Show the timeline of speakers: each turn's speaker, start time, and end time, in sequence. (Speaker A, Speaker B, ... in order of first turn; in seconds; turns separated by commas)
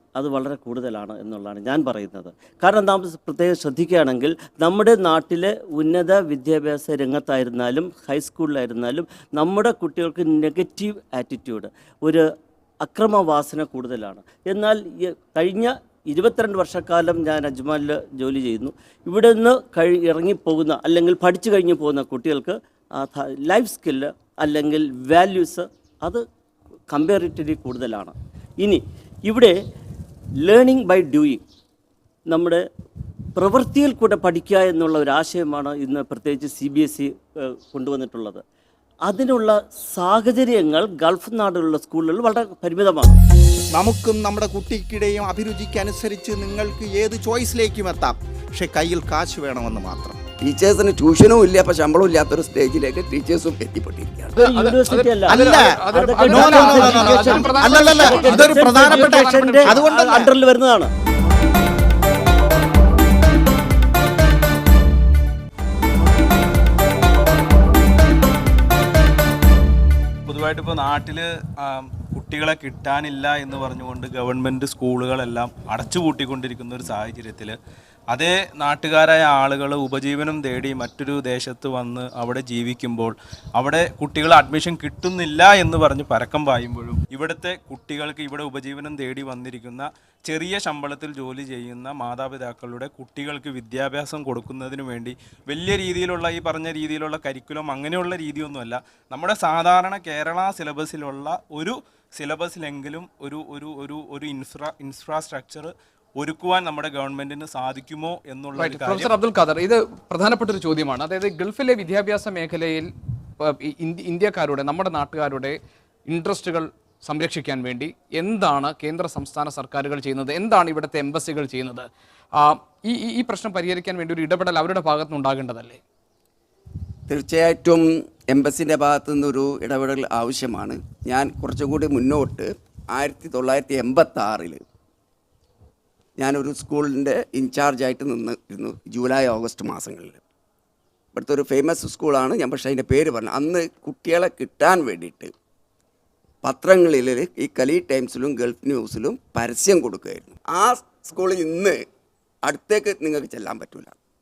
Speaker A: 0.1-12.3, Speaker A: 12.8-26.2, Speaker A: 26.9-29.6, Speaker A: 30.4-31.4, Speaker A: 32.3-32.6, Speaker A: 33.4-38.4, Speaker A: 39.1-43.2, Speaker B: 43.7-50.2, Speaker C: 50.4-54.4, Speaker D: 54.4-59.8, Speaker A: 54.4-60.9, Speaker B: 55.3-60.3, Speaker E: 70.2-77.5, Speaker E: 78.1-109.1, Speaker D: 108.6-112.9, Speaker D: 113.4-115.6, Speaker D: 116.1-125.8, Speaker C: 127.1-134.6, Speaker C: 136.2-140.2, Speaker C: 141.2-145.3, Speaker C: 146.4-151.8, Speaker C: 152.4-153.9